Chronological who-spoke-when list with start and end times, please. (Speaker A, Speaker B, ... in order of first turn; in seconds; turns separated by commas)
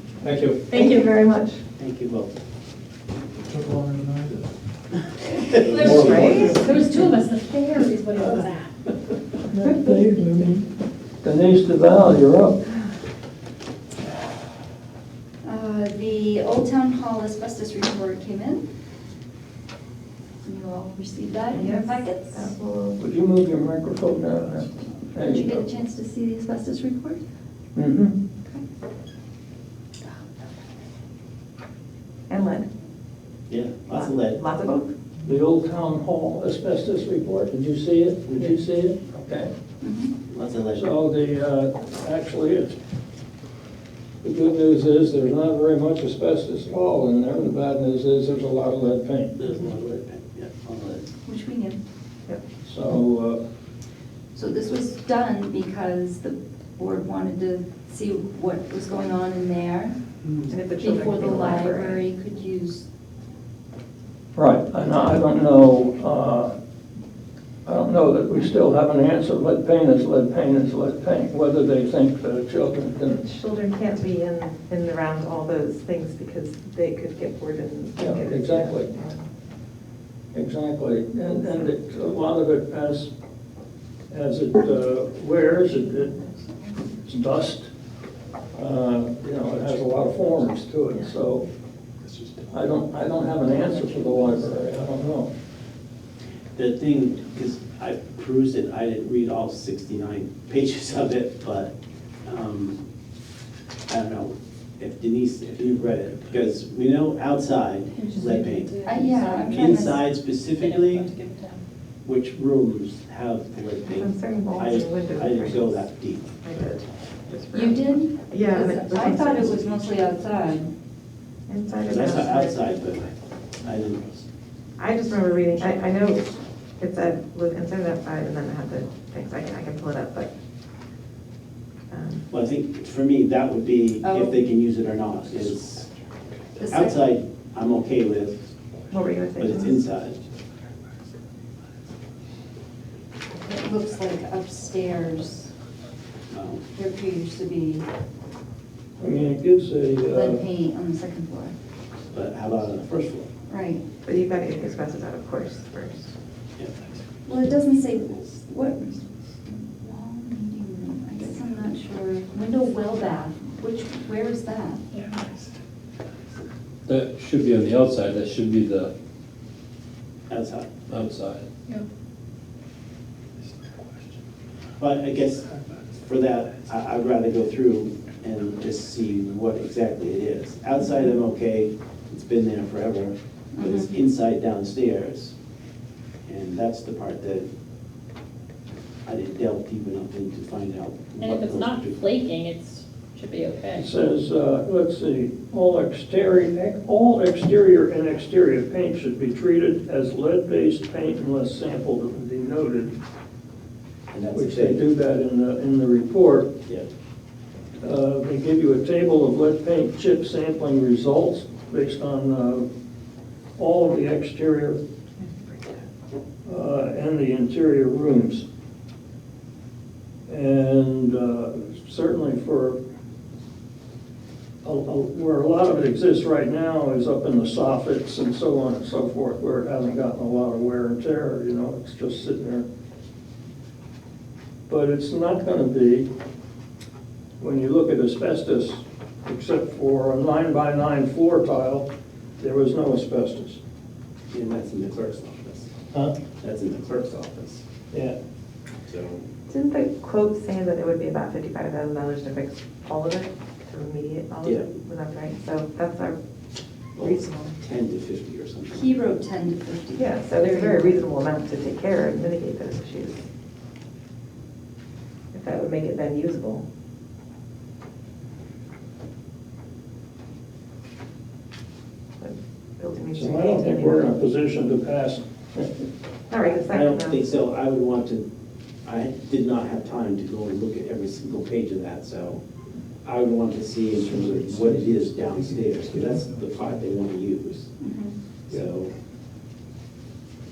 Speaker A: 0.2-0.6, Speaker B: 0.7-1.0, Speaker C: 0.7-1.6, Speaker D: 1.8-2.3, Speaker E: 3.4-4.5, Speaker B: 5.6-8.7, Speaker E: 5.8-6.6, Speaker A: 5.9-6.2, Speaker C: 5.9-6.6, Speaker F: 9.5-10.6, Speaker F: 11.2-12.5, Speaker G: 15.4-18.6, Speaker G: 20.4-22.5, Speaker C: 21.5-23.1, Speaker F: 23.0-25.7, Speaker G: 25.1-27.2, Speaker F: 27.8-28.1, Speaker C: 32.3-32.7, Speaker D: 33.5-34.4, Speaker C: 33.9-34.9, Speaker F: 35.2-39.5, Speaker D: 38.3-38.5, Speaker G: 39.8-40.1, Speaker D: 40.3-40.9, Speaker F: 40.7-42.8, Speaker F: 44.2-49.3, Speaker D: 49.4-51.1, Speaker G: 51.2-51.8, Speaker F: 52.6-53.4, Speaker G: 54.3-59.9, Speaker C: 60.5-62.0, Speaker G: 60.8-62.8, Speaker F: 64.3-66.5, Speaker F: 67.6-73.2, Speaker C: 73.2-79.2, Speaker F: 78.0-78.9, Speaker F: 80.3-83.1, Speaker C: 81.2-81.7, Speaker F: 84.1-86.1, Speaker F: 87.0-87.7, Speaker F: 88.5-91.5, Speaker E: 92.1-92.6, Speaker F: 92.5-95.3, Speaker D: 96.5-101.7, Speaker D: 102.2-102.8, Speaker D: 103.9-108.7, Speaker B: 108.0-109.5, Speaker G: 108.8-110.0, Speaker D: 109.5-111.1, Speaker B: 110.6-111.6, Speaker D: 112.0-116.4, Speaker C: 113.9-115.8, Speaker C: 116.4-119.8, Speaker G: 117.5-120.7, Speaker C: 121.5-122.6, Speaker D: 121.8-124.1, Speaker C: 124.8-130.3, Speaker C: 131.9-132.3, Speaker D: 132.3-135.9, Speaker G: 134.0-134.3, Speaker G: 136.6-137.0, Speaker D: 136.6-138.4, Speaker C: 138.9-139.8, Speaker D: 139.4-140.2, Speaker G: 143.3-145.5, Speaker D: 146.3-146.6, Speaker G: 146.7-147.8, Speaker F: 149.0-150.4, Speaker G: 150.1-151.5, Speaker D: 152.1-153.3, Speaker G: 153.5-153.8, Speaker C: 154.0-156.1, Speaker G: 157.2-164.8, Speaker B: 164.9-165.5, Speaker A: 166.9-168.9, Speaker D: 170.3-170.8, Speaker A: 170.9-171.5, Speaker D: 174.8-175.5, Speaker D: 176.0-185.3, Speaker G: 183.5-183.9, Speaker D: 186.2-187.5, Speaker D: 189.0-192.0, Speaker B: 191.2-194.0, Speaker F: 193.8-203.0, Speaker D: 204.1-204.8, Speaker F: 204.3-206.5, Speaker F: 207.8-212.7, Speaker F: 213.6-214.8, Speaker C: 215.2-215.8, Speaker F: 216.4-218.4, Speaker F: 220.3-222.8, Speaker F: 224.6-232.7, Speaker F: 234.7-236.1, Speaker F: 237.4-241.9, Speaker F: 242.4-243.6, Speaker D: 244.3-245.7, Speaker D: 246.4-247.6, Speaker F: 247.9-248.2, Speaker D: 248.8-249.2, Speaker C: 249.5-256.2, Speaker D: 254.4-254.7, Speaker D: 256.9-259.1, Speaker C: 257.0-257.6, Speaker G: 258.7-261.0, Speaker C: 259.9-263.2, Speaker C: 265.3-266.6, Speaker C: 272.2-274.1, Speaker F: 273.1-275.8, Speaker C: 276.3-277.2, Speaker D: 276.9-278.2, Speaker D: 278.8-282.4, Speaker D: 283.0-287.7, Speaker E: 284.1-286.6, Speaker G: 287.8-288.1, Speaker D: 288.5-288.9